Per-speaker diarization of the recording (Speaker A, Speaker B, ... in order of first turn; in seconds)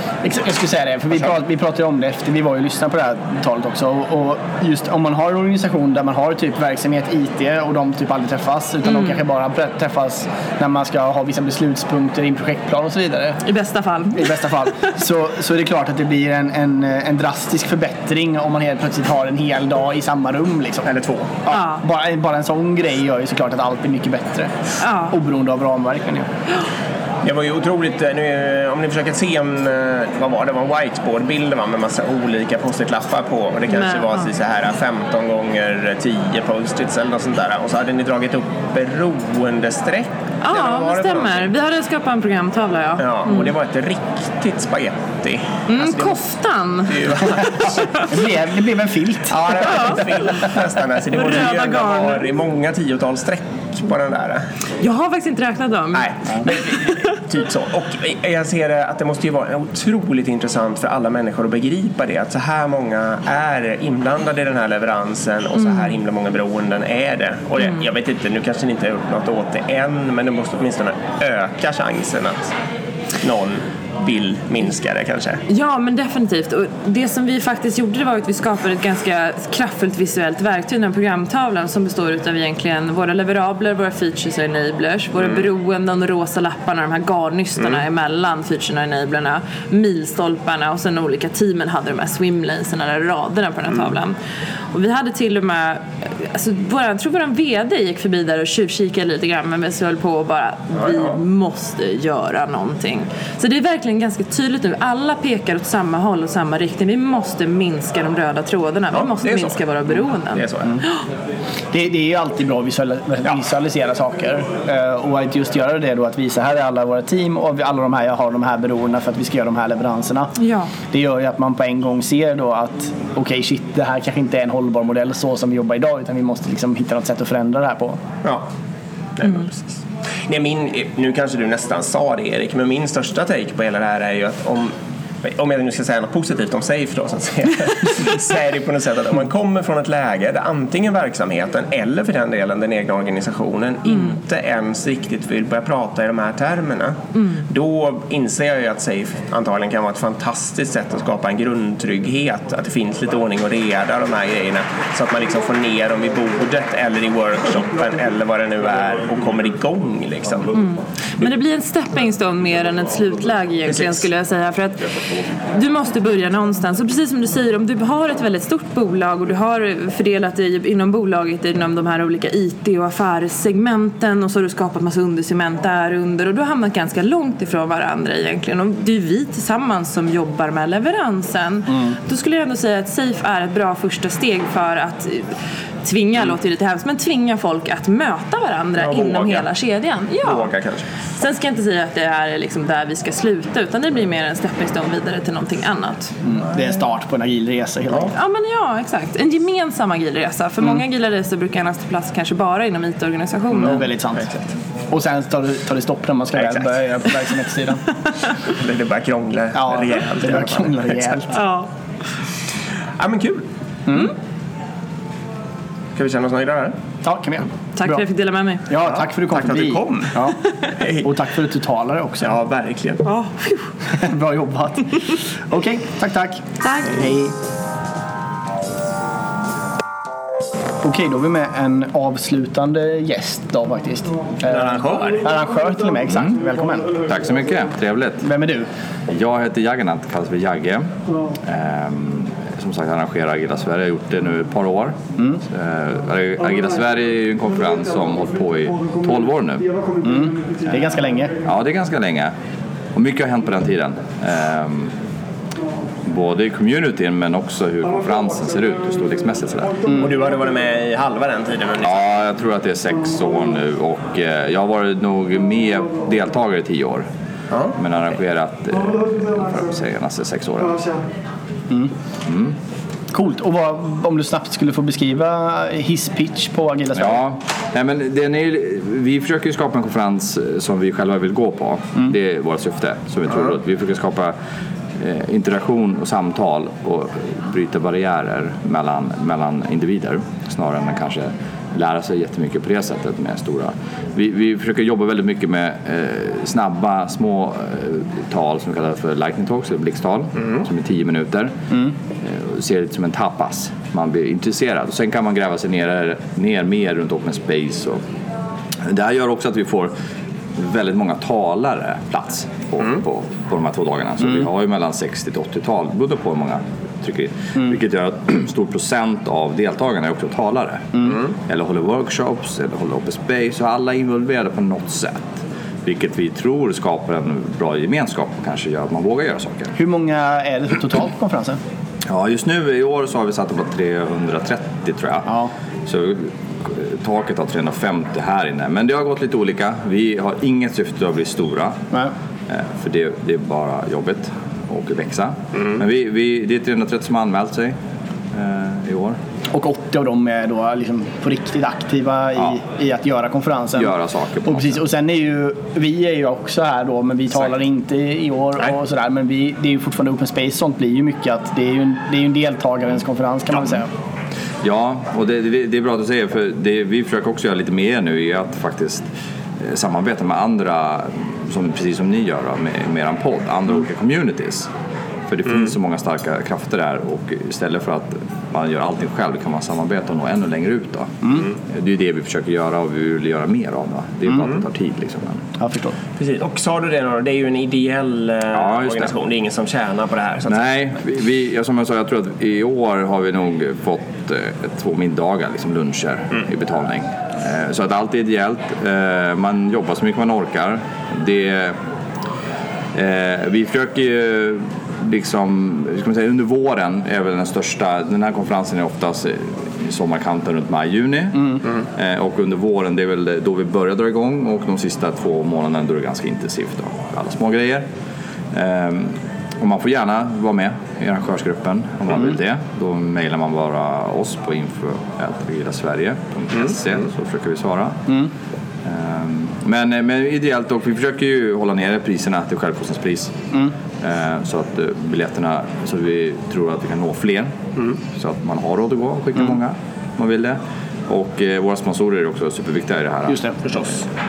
Speaker A: 0.2-13.4, 14.1-20.9, 21.5-24.5, 25.1-26.3, 48.1-49.9, 111.7-120.3, 120.9-128.0, 196.2-198.1, 203.5-204.3, 204.9-207.8, 209.5-211.3, 217.0-218.0, 218.7-220.4, 221.0-222.3, 224.0-227.3, 230.8-236.9, 238.2-238.7, 250.0-251.3, 273.1-277.2, 329.8-331.6, 335.3-335.5, 349.5-353.9, 354.4-363.9, 385.6-385.9, 443.3-443.6
Speaker B: 8.8-9.2, 13.4-14.3, 21.5-21.8, 24.8-25.2, 33.7-34.3, 40.4-43.5, 45.7-47.8, 49.6-50.0, 51.1-52.3, 54.8-57.0, 65.5-66.0, 67.6-67.9, 75.5-94.2, 94.7-110.9, 120.4-120.7, 143.9-144.2, 160.5-164.8, 165.5-185.3, 185.8-190.5, 191.2-196.1, 198.1-203.8, 211.3-211.7, 217.8-218.6, 223.1-223.6, 226.6-227.0
Speaker C: 20.9-21.4, 27.2-41.5, 43.0-46.2, 46.9-47.9, 49.3-54.5, 55.9-72.5, 73.2-75.4, 85.2-85.5, 87.6-87.8, 100.8-101.2, 108.9-110.8, 129.2-129.7, 130.3-160.6, 163.7-164.1, 188.8-189.5, 190.2-190.8, 206.4-206.7, 208.5-211.2, 213.0-213.4, 216.0-216.8, 218.8-221.1, 222.2-223.0, 234.5-235.2, 259.9-262.2, 267.5-267.8, 384.4-384.7, 386.2-390.6, 443.6-444.0
Speaker D: 237.0-238.3, 239.1-240.9, 241.5-245.0, 245.5-249.8, 251.4-252.3, 252.9-254.9, 256.1-259.8, 261.8-267.1, 267.7-270.9, 272.3-272.5, 277.0-284.3, 285.0-301.5, 302.2-308.0, 308.9-309.9, 310.6-320.9, 321.5-329.7, 332.1-335.3, 335.9-341.8, 342.5-347.8, 348.3-349.2, 353.8-354.8, 364.6-369.1, 369.6-374.7, 375.3-385.4, 388.5-389.1, 390.5-401.8, 402.9-417.9, 418.5-428.0, 428.9-433.4, 434.0-437.6, 438.1-443.4